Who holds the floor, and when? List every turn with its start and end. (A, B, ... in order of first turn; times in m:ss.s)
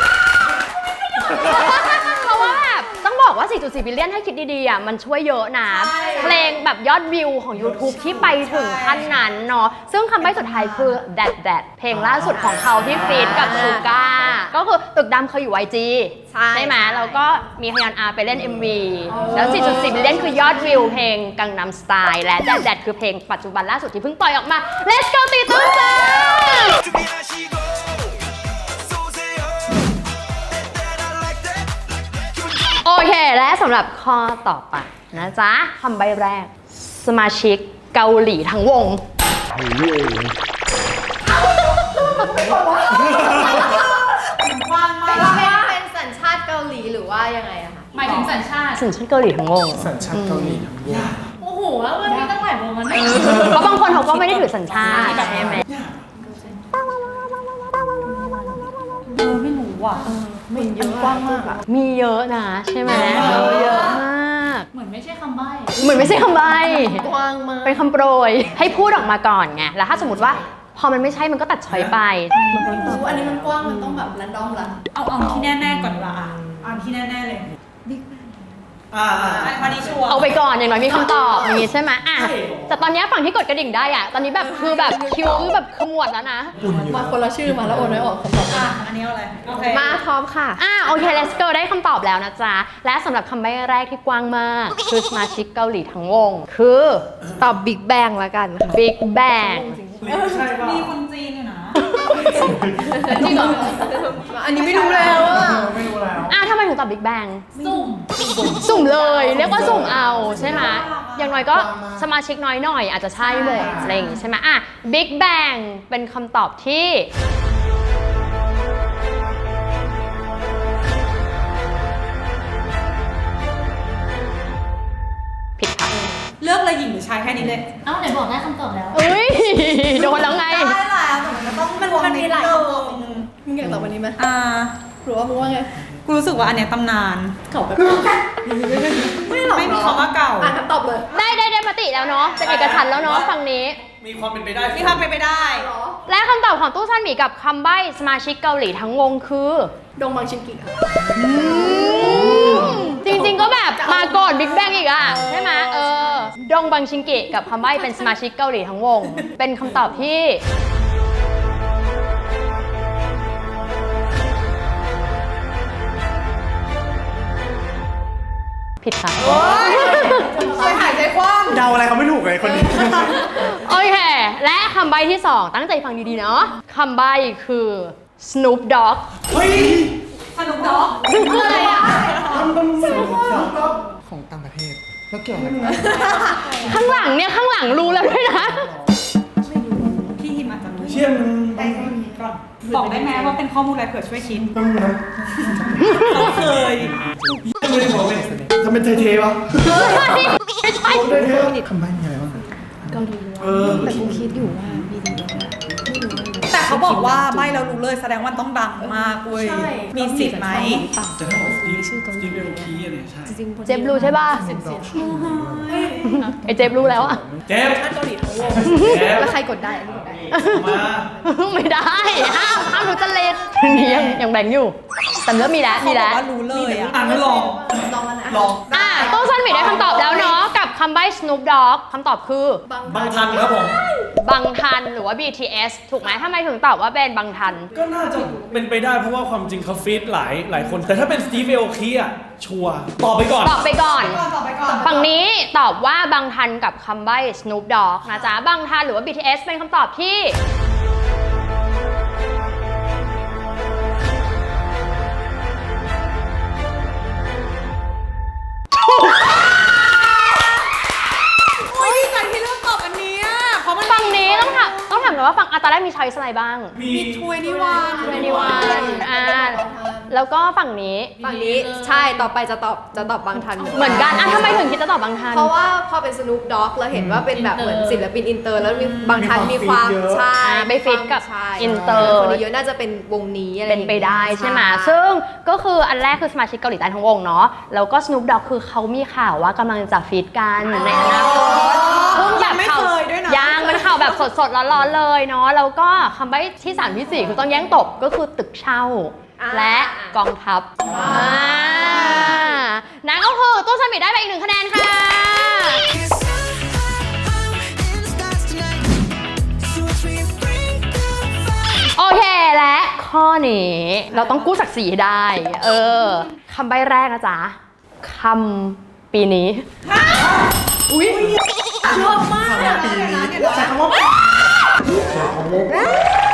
0:01.2-0:26.8 A
0:05.7-0:06.5 B
0:05.9-0:06.5 C
0:07.6-0:08.1 D
0:07.9-0:09.1 B
0:12.3-0:14.1 C
0:16.3-0:17.2 C
0:19.1-0:21.0 C
0:26.9-0:28.2 E
0:28.7-0:29.6 E
0:30.5-0:31.7 E
0:32.8-0:39.0 A
0:41.3-0:44.3 C
0:42.9-0:43.4 F
0:44.4-0:45.4 B
0:45.1-0:47.9 C
0:45.2-0:45.8 G
0:47.9-0:48.8 G
0:48.7-0:50.6 A
0:49.7-0:51.1 F
0:50.8-0:51.3 D
0:51.4-0:53.8 G
0:52.1-0:52.3 C
0:53.0-0:54.4 D
0:53.2-0:55.6 A
0:54.4-0:55.4 G
0:54.9-0:55.5 C
0:54.9-0:55.2 B
0:55.0-0:56.1 D
0:58.2-0:58.6 G
0:59.1-1:00.1 B
1:00.0-1:01.6 C
1:00.8-1:01.2 B
1:01.6-1:04.7 A
1:02.8-1:03.9 D
1:02.9-1:04.0 B
1:04.7-1:07.2 G
1:05.8-1:07.0 A
1:05.8-1:09.0 C
1:07.6-1:12.5 A
1:09.9-1:10.4 C
1:12.4-1:14.8 C
1:12.5-1:13.8 B
1:12.5-1:13.1 G
1:13.2-1:13.5 D
1:14.8-1:17.5 B
1:17.8-1:18.2 C
1:18.9-1:20.2 D
1:19.1-1:20.3 B
1:20.1-1:26.5 A
1:21.1-1:22.8 D
1:24.4-1:25.5 C
1:26.6-1:28.0 D
1:26.6-1:27.2 F
1:26.9-1:28.8 C
1:28.5-1:30.0 B
1:29.6-1:31.1 C
1:30.6-1:37.1 A
1:37.4-1:40.5 C
1:38.7-1:39.8 A
1:40.0-1:40.9 D
1:40.4-1:41.8 B
1:41.8-1:45.8 C
1:42.2-1:43.2 F
1:42.3-1:42.9 D
1:43.1-1:44.0 G
1:43.2-1:43.7 B
1:44.4-1:45.6 B
1:45.1-1:46.4 F
1:46.3-1:47.5 A
1:47.5-1:48.4 B
1:47.6-1:48.6 G
1:47.6-1:50.4 C
1:48.5-1:57.1 A
1:49.3-1:50.7 F
1:49.6-1:51.4 B
1:51.4-1:52.1 F
1:53.2-1:54.1 C
1:53.4-1:54.0 F
2:05.6-2:05.9 A
2:06.4-2:07.7 B
2:07.8-2:09.0 G
2:08.9-2:10.8 A
2:09.9-2:13.3 B
2:11.8-2:14.2 C
2:14.2-2:14.7 B
2:15.0-2:15.8 C
2:16.0-2:17.4 B
2:17.5-2:21.1 C
2:19.1-2:20.5 B
2:21.1-2:23.8 A
2:22.0-2:22.6 C
2:22.4-2:25.0 D
2:24.7-2:25.7 B
2:25.2-2:26.0 C
2:26.0-2:29.7 A
2:30.0-2:35.6 C
2:31.1-2:40.4 A
2:31.9-2:32.6 F
2:48.8-2:50.3 A
2:49.2-2:51.7 B
2:49.2-2:51.1 C
2:51.5-2:53.4 F
2:53.2-2:59.1 A
2:59.3-2:59.9 D
2:59.4-3:02.5 B
3:01.1-3:01.9 A
3:01.1-3:03.7 C
3:01.2-3:02.2 G
3:02.2-3:03.8 D
3:02.7-3:06.4 F
3:05.4-3:05.9 D
3:05.6-3:06.8 C
3:06.1-3:06.9 G
3:06.2-3:06.6 B
3:06.6-3:08.7 A
3:07.6-3:10.2 F
3:10.1-3:14.5 B
3:10.8-3:11.9 D
3:12.6-3:13.3 C
3:14.5-3:18.6 F
3:15.4-3:17.0 B
3:15.5-3:16.9 D
3:15.8-3:16.1 A
3:17.5-3:21.6 D
3:19.6-3:21.1 A
3:20.9-3:21.6 C
3:21.1-3:23.1 F
3:22.9-3:27.2 C
3:23.4-3:24.3 D
3:23.6-3:24.1 F
3:26.5-3:30.9 B
3:28.8-3:35.1 C
3:31.2-3:33.4 D
3:33.6-3:34.5 A
3:34.2-3:35.7 F
3:34.9-3:36.2 B
3:35.7-3:36.2 C
3:36.0-3:37.2 A
3:36.3-3:37.5 F
3:37.5-3:39.4 D
3:37.8-3:44.2 C
3:38.2-3:38.7 B
3:38.7-3:39.0 A
3:40.0-3:41.1 D
3:40.3-3:46.2 A
3:45.7-3:47.0 B
3:46.5-3:50.4 C
3:46.9-3:50.4 D
3:48.7-3:52.6 A
3:52.6-3:54.0 C
3:52.8-3:53.8 D
3:54.2-3:57.7 A
3:57.6-3:59.2 C
3:57.7-4:03.7 D
4:03.4-4:04.2 A
4:03.6-4:05.1 B
4:04.7-4:05.0 C
4:04.8-4:10.4 A
4:08.1-4:08.3 C
4:21.6-4:25.2 B
4:23.8-4:26.8 A
4:26.7-4:27.4 D
4:26.8-4:29.0 B
4:27.4-4:30.1 C
4:27.9-4:28.8 D
4:28.0-4:31.2 A
4:28.5-4:28.9 G
4:31.2-4:32.3 G
4:31.2-4:45.0 C
4:33.6-4:35.5 A
4:33.6-4:34.1 G
4:36.9-4:37.2 F
4:37.3-4:38.1 G
4:39.0-4:40.3 F
4:40.4-4:42.4 A
4:41.6-4:42.2 F
4:43.6-5:05.9 A
4:50.7-4:51.9 C
4:50.7-4:54.2 B
4:57.1-4:57.4 C
4:59.4-5:00.2 C
5:00.8-5:02.5 C
5:05.7-5:11.9 E
5:11.9-5:19.7 A
5:14.1-5:14.5 C
5:19.8-5:20.4 B
5:20.9-5:21.2 C
5:21.1-5:23.8 B
5:22.3-5:24.1 F